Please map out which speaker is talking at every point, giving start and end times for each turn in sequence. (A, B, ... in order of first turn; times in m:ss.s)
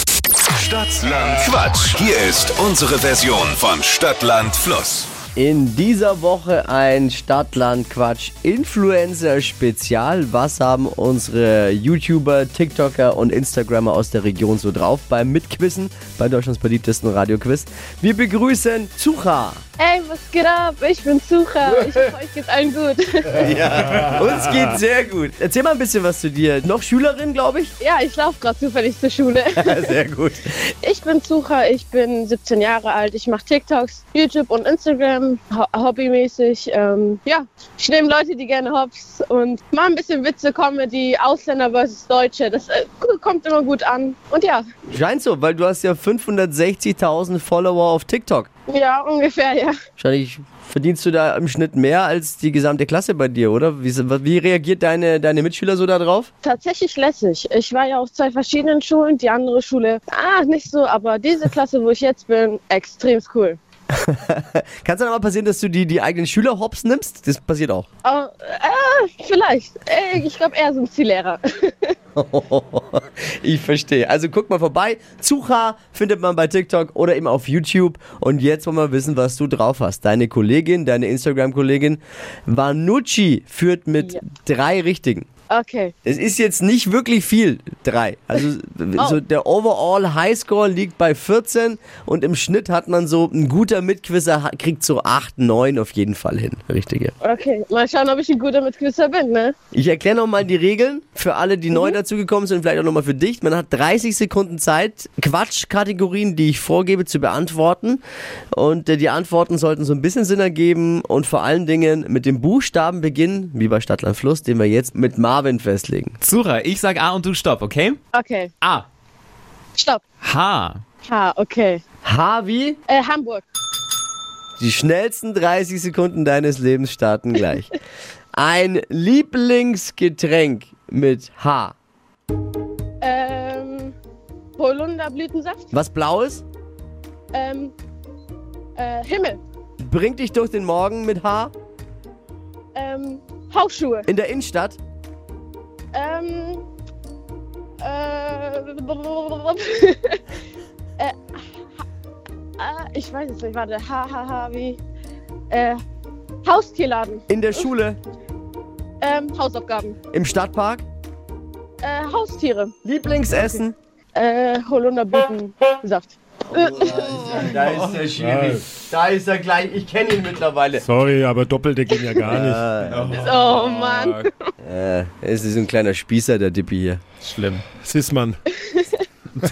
0:00.5-0:05.1 A
0:05.4-0:19.6 B
0:19.8-0:23.4 C
0:23.4-0:27.7 B
0:27.8-0:30.0 C
0:29.6-0:30.6 B
0:30.8-0:44.6 C
0:44.9-0:48.5 B
0:48.7-0:49.7 C
0:50.0-0:56.3 B
0:56.4-1:03.6 C
1:03.9-1:07.9 B
1:08.0-1:11.9 C
1:12.2-1:25.3 B
1:25.5-1:25.9 C
1:26.0-1:37.1 B
1:37.2-1:39.5 C
1:39.7-1:48.0 B
1:48.5-1:56.1 B
1:56.2-1:58.0 D
1:58.1-1:58.5 C
1:59.8-2:00.0 C
2:00.2-2:00.8 D
2:01.1-2:01.8 C
2:02.0-2:02.8 B
2:02.9-2:03.4 C
2:04.6-2:07.7 B
2:08.3-2:11.7 B
2:13.0-2:13.9 C
2:14.6-2:15.7 C
2:15.7-2:16.4 B
2:17.3-2:17.7 C
2:18.8-2:19.4 C
2:19.8-2:21.5 B
2:22.7-2:24.1 C
2:24.1-2:24.8 B
2:25.9-2:26.6 C
2:27.8-2:30.2 C
2:31.0-2:31.4 C
2:32.6-2:34.8 C
2:35.5-2:35.8 C
2:36.4-2:37.6 C
2:37.3-2:38.0 B
2:39.0-2:40.0 C
2:40.1-2:40.8 B
2:41.8-2:42.7 C
2:42.8-2:43.7 B
2:44.1-2:47.4 C
2:46.5-2:50.8 B
2:47.4-2:47.7 D
2:48.1-2:48.6 E
2:50.8-2:52.7 E
2:51.9-2:52.3 C
2:52.2-2:53.4 B
2:52.9-2:54.2 D
2:53.1-2:54.3 C
2:54.6-2:57.0 B
2:57.2-2:57.6 D
2:57.6-2:58.4 E
2:58.5-2:59.0 C